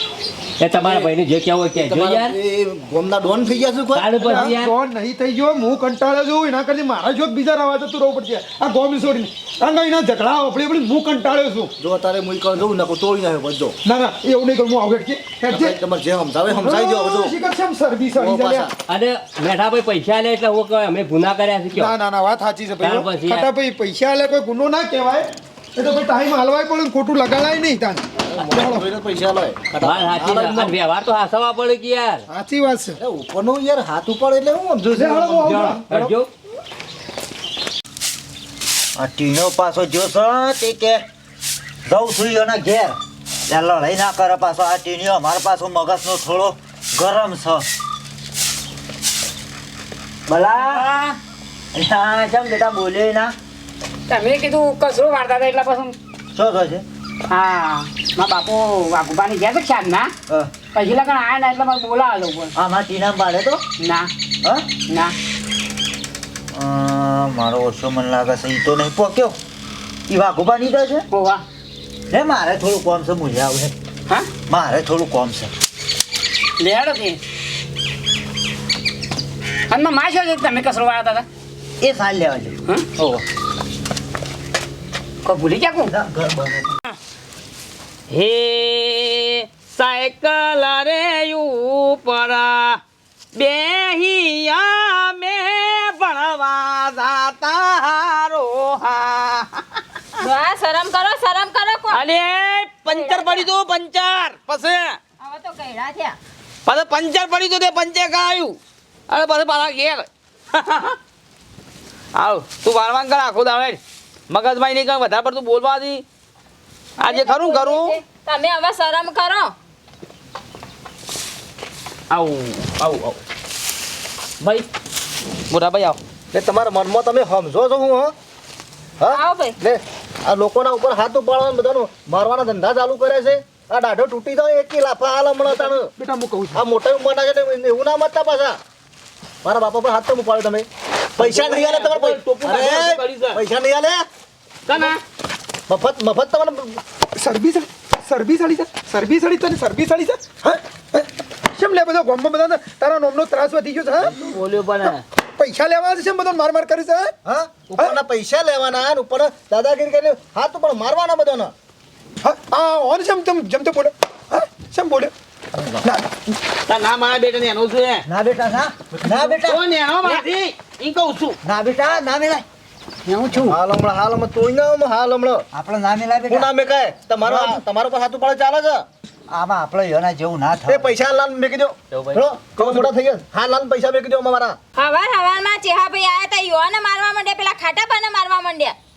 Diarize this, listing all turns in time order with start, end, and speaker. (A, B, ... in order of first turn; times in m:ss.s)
0:00.6-0:02.4 A
0:00.8-0:01.1 B
0:01.8-0:04.5 B
0:03.9-0:04.7 A
0:04.2-0:11.7 C
0:11.8-0:13.8 B
0:13.8-0:15.8 C
0:15.5-0:17.3 B
0:16.5-0:18.7 C
0:18.2-0:18.7 B
0:18.9-0:21.9 A
0:21.7-0:28.9 C
0:22.8-0:23.5 A
0:28.2-0:30.8 B
0:29.8-0:32.2 A
0:32.3-0:33.0 C
0:33.0-0:36.0 B
0:34.9-0:36.1 C
0:35.4-0:36.3 A
0:39.0-0:41.0 D
0:41.9-0:43.0 D
0:43.5-0:47.6 D
0:50.3-0:50.9 D
0:51.7-0:53.3 D
0:54.1-0:55.9 E
0:56.3-0:56.8 D
0:57.3-1:00.1 E
1:00.7-1:02.5 E
1:02.6-1:03.6 D
1:03.8-1:04.1 E
1:04.9-1:05.1 E
1:06.5-1:09.4 D
1:10.1-1:11.0 D
1:11.1-1:11.4 E
1:12.1-1:13.7 D
1:14.5-1:15.5 D
1:16.6-1:17.2 E
1:19.7-1:21.2 E
1:21.8-1:23.2 D
1:25.2-1:25.9 E
1:25.9-1:26.8 D
1:28.1-1:32.8 F
1:33.3-1:39.6 F
1:40.2-1:42.0 G
1:41.9-1:45.0 F
1:42.9-1:43.5 G
1:45.2-1:46.2 G
1:46.6-1:48.6 F
1:49.1-1:51.0 F
1:52.2-1:56.0 F
1:57.0-1:57.9 F
1:57.0-1:59.5 G
2:02.1-2:03.2 F
2:04.4-2:04.7 F
2:05.5-2:06.0 F
2:06.3-2:08.1 B
2:09.0-2:15.9 B
2:09.1-2:09.6 G
2:15.4-2:16.6 C
2:16.5-2:18.6 B
2:19.4-2:24.0 B
2:21.2-2:23.4 F
2:24.7-2:25.0 F
2:25.7-2:26.8 B
2:27.2-2:34.2 C
2:34.2-2:35.0 F
2:34.8-2:37.1 C
2:37.3-2:41.5 B
2:42.2-2:45.1 C
2:45.5-2:45.8 D
2:45.8-2:46.3 C
2:46.7-2:48.0 F
2:48.1-2:49.6 D
2:49.4-2:51.4 F
2:51.4-2:52.4 D
2:53.1-2:53.6 E
2:53.3-2:55.4 B
2:55.5-2:56.5 D
2:56.3-2:58.8 B
2:57.2-2:57.6 D
2:59.3-3:00.9 D
3:00.7-3:04.6 B
3:01.9-3:02.2 A
3:02.6-3:02.9 C
3:04.8-3:08.8 G